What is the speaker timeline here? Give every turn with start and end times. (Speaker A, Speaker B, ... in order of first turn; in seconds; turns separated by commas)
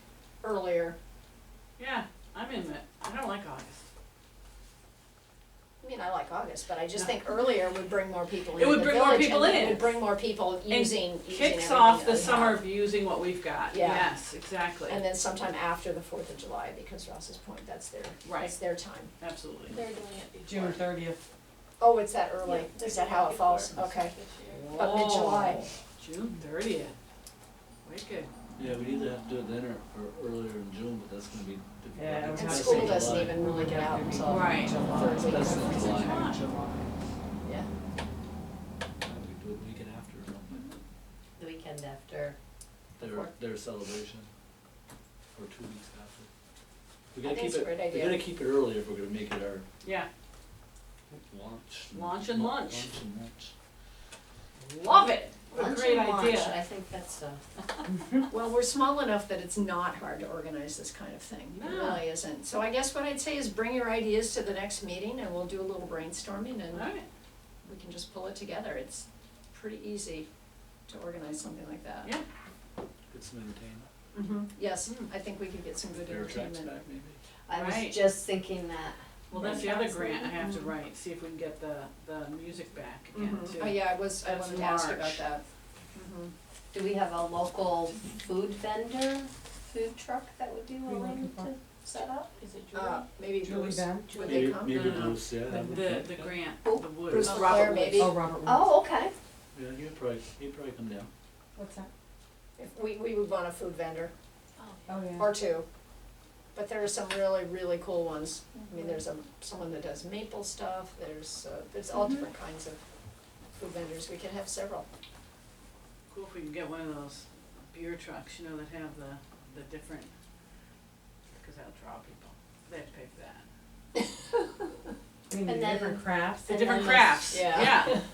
Speaker A: 0.4-1.0, Speaker B: 1.8-3.8, Speaker A: 5.8-12.7, Speaker B: 8.5-10.0, Speaker B: 10.7-15.0, Speaker A: 13.7-14.1, Speaker A: 14.9-19.1, Speaker B: 18.2-18.6, Speaker B: 19.2-19.8, Speaker C: 19.7-20.8, Speaker D: 20.4-21.2, Speaker A: 21.8-24.1, Speaker C: 22.4-24.8, Speaker B: 24.5-26.9, Speaker A: 24.7-25.7, Speaker B: 27.8-28.3, Speaker E: 28.6-33.5, Speaker D: 31.9-35.6, Speaker A: 32.4-36.8, Speaker B: 34.3-34.7, Speaker E: 35.2-36.4, Speaker B: 35.7-36.5, Speaker D: 36.4-36.9, Speaker A: 37.4-37.7, Speaker E: 39.0-40.7, Speaker F: 41.4-42.4, Speaker E: 43.0-44.3, Speaker F: 43.0-43.3, Speaker E: 45.3-46.3, Speaker E: 47.1-49.7, Speaker A: 47.2-48.2, Speaker B: 49.8-50.1, Speaker E: 51.1-53.5, Speaker B: 51.9-52.9, Speaker B: 54.6-56.6, Speaker F: 55.5-57.4, Speaker A: 58.3-66.9, Speaker B: 61.5-62.1, Speaker B: 66.7-67.0, Speaker A: 67.6-70.3, Speaker A: 70.9-72.1, Speaker E: 73.1-73.9, Speaker A: 74.1-76.8, Speaker E: 76.0-77.2, Speaker F: 77.5-79.0, Speaker B: 77.5-78.0, Speaker B: 79.3-85.2, Speaker A: 83.1-85.4, Speaker A: 85.9-86.3, Speaker F: 86.7-92.3, Speaker D: 90.9-91.5, Speaker C: 92.4-93.1, Speaker A: 92.7-95.3, Speaker D: 93.4-94.2, Speaker C: 94.1-94.4, Speaker E: 94.2-96.3, Speaker B: 94.7-97.6, Speaker D: 95.5-95.8, Speaker A: 97.1-98.2, Speaker F: 97.5-99.1, Speaker D: 97.9-98.7, Speaker E: 99.5-101.1, Speaker D: 101.5-101.9, Speaker A: 102.6-104.1, Speaker C: 104.6-105.0, Speaker D: 104.9-105.3, Speaker A: 105.2-105.7, Speaker A: 106.5-112.8, Speaker C: 108.5-109.0, Speaker A: 113.5-114.9, Speaker B: 116.1-120.1, Speaker B: 121.3-123.5, Speaker D: 125.3-126.6, Speaker F: 125.5-127.7, Speaker B: 126.5-128.0, Speaker A: 127.3-127.9